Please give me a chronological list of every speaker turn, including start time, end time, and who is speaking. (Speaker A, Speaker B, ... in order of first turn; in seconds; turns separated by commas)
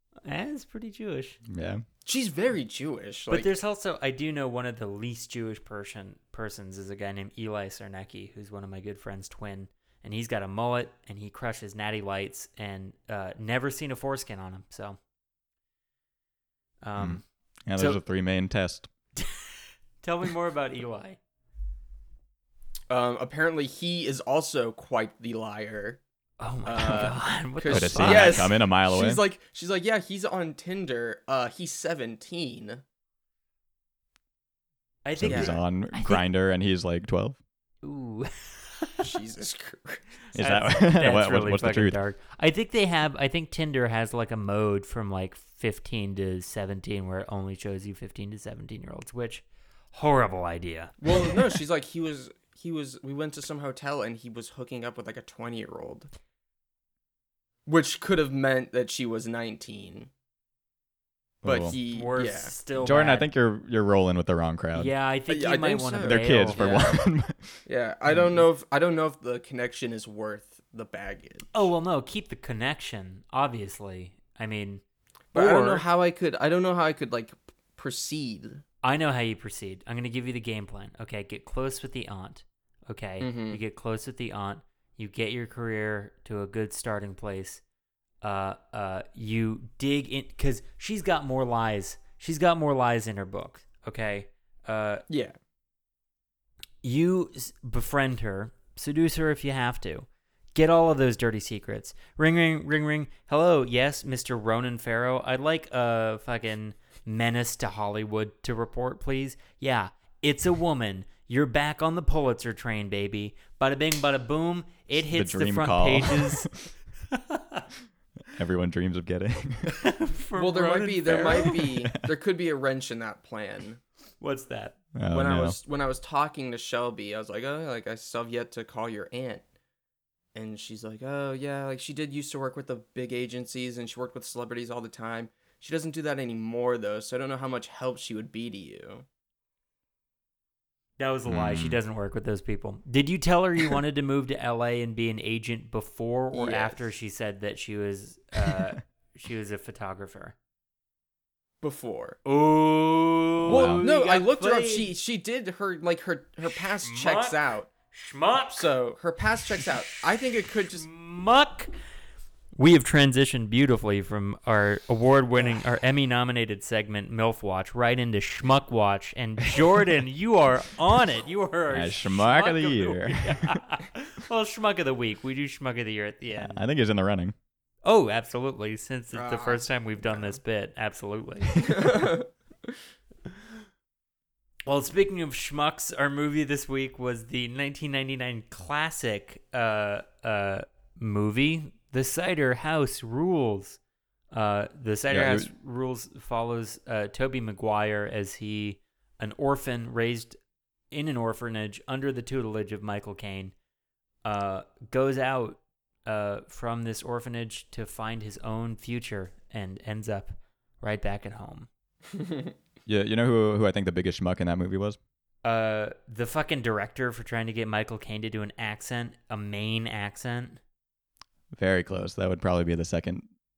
Speaker A: 0.2-1.4, Speaker B: 1.4-1.8, Speaker C: 2.0-3.5, Speaker A: 3.3-15.0, Speaker A: 16.8-17.2, Speaker B: 17.0-18.9, Speaker A: 17.8-18.0, Speaker A: 19.1-19.5, Speaker A: 20.0-21.2, Speaker C: 22.9-26.0, Speaker A: 26.4-28.5, Speaker C: 26.6-32.8, Speaker B: 27.7-29.2, Speaker A: 35.0-36.2, Speaker B: 35.1-37.4, Speaker C: 35.2-35.6, Speaker A: 37.8-39.0, Speaker C: 39.0-40.2, Speaker B: 40.3-42.0, Speaker A: 40.4-51.3, Speaker C: 51.0-56.1, Speaker C: 57.6-60.1, Speaker B: 61.4-61.7, Speaker C: 61.4-62.5, Speaker A: 61.7-63.3, Speaker B: 62.8-64.9, Speaker A: 64.7-66.9, Speaker C: 65.3-67.0, Speaker B: 66.0-68.4, Speaker C: 67.7-71.7, Speaker A: 71.5-74.8, Speaker C: 75.3-78.6, Speaker A: 75.3-75.8, Speaker A: 78.8-87.6, Speaker C: 83.2-83.6, Speaker A: 88.2-95.0, Speaker C: 95.1-95.3, Speaker A: 96.8-116.5, Speaker B: 114.9-116.7, Speaker A: 117.1-117.6, Speaker B: 118.3-119.9, Speaker A: 119.7-121.7, Speaker C: 120.3-123.8, Speaker A: 124.2-124.8, Speaker B: 124.9-125.6, Speaker C: 125.1-129.4, Speaker C: 130.3-139.0, Speaker A: 141.0-150.3, Speaker B: 141.3-141.8, Speaker C: 146.3-146.8, Speaker C: 151.6-152.2, Speaker A: 152.2-154.9, Speaker B: 153.4-153.8, Speaker C: 153.5-157.7, Speaker A: 156.5-157.4, Speaker A: 157.9-158.7, Speaker C: 158.5-160.8, Speaker A: 160.7-161.7, Speaker A: 162.6-176.6, Speaker B: 171.7-173.6, Speaker B: 176.3-177.3, Speaker A: 177.8-181.8, Speaker C: 179.1-180.4, Speaker C: 181.5-182.3, Speaker A: 184.7-193.8, Speaker A: 194.3-200.4, Speaker B: 195.1-195.5, Speaker A: 200.9-203.5, Speaker A: 204.2-211.7, Speaker B: 212.8-215.0, Speaker A: 215.4-220.6, Speaker B: 221.5-223.3